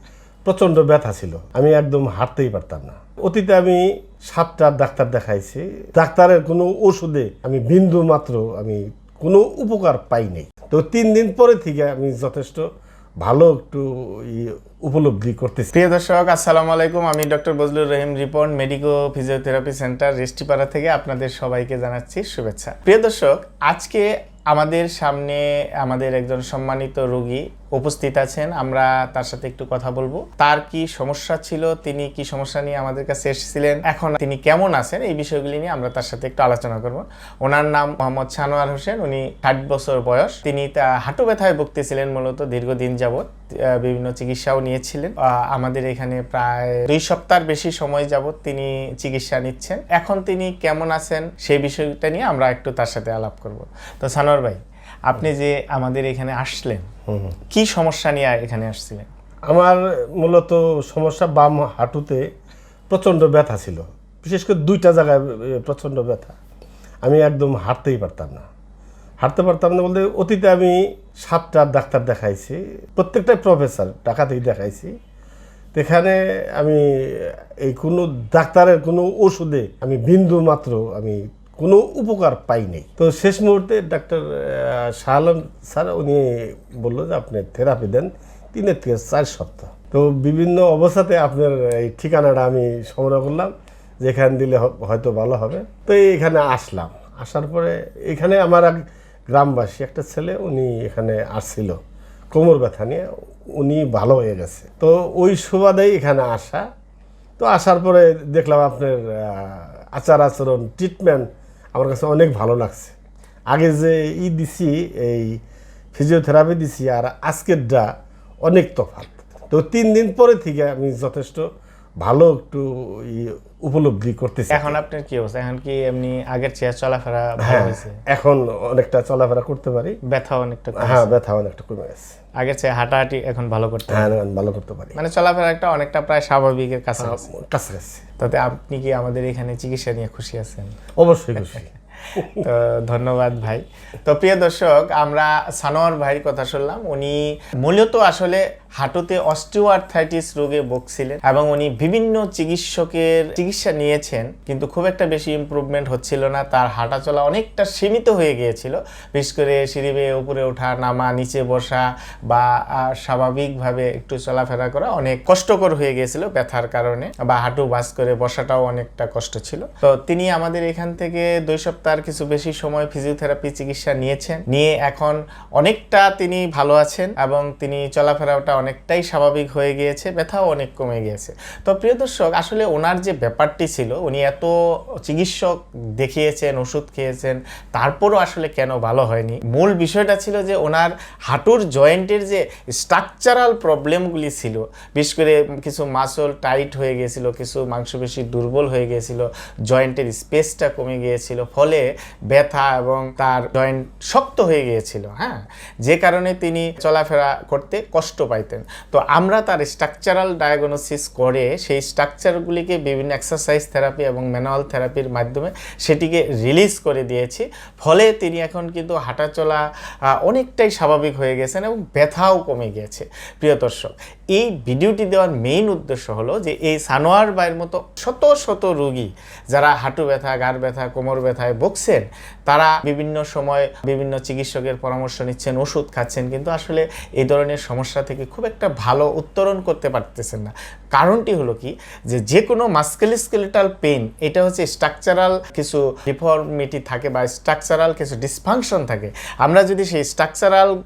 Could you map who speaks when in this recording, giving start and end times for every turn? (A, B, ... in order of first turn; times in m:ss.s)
0:00.4-0:12.6 A
0:13.2-0:15.7 A
0:15.7-0:56.8 B
0:57.1-0:57.3 A
0:57.5-0:59.0 B
0:59.5-1:02.2 A
1:02.9-1:06.4 A
1:07.0-1:08.4 A
1:09.2-1:14.9 A
1:15.7-1:41.8 A
1:42.3-1:46.6 A
1:47.4-1:52.9 A
1:53.5-1:55.4 A
1:55.9-1:57.9 A
1:58.4-2:01.4 A
2:02.0-2:04.8 A
2:04.5-2:08.0 B
2:07.4-2:10.0 A
2:10.1-2:11.1 B
2:10.8-2:12.2 A
2:12.4-2:14.1 B
2:13.9-2:15.0 A
2:15.0-2:17.2 B
2:17.0-2:18.0 A
2:18.2-2:20.7 B
2:21.0-2:22.4 A
2:22.4-4:10.7 B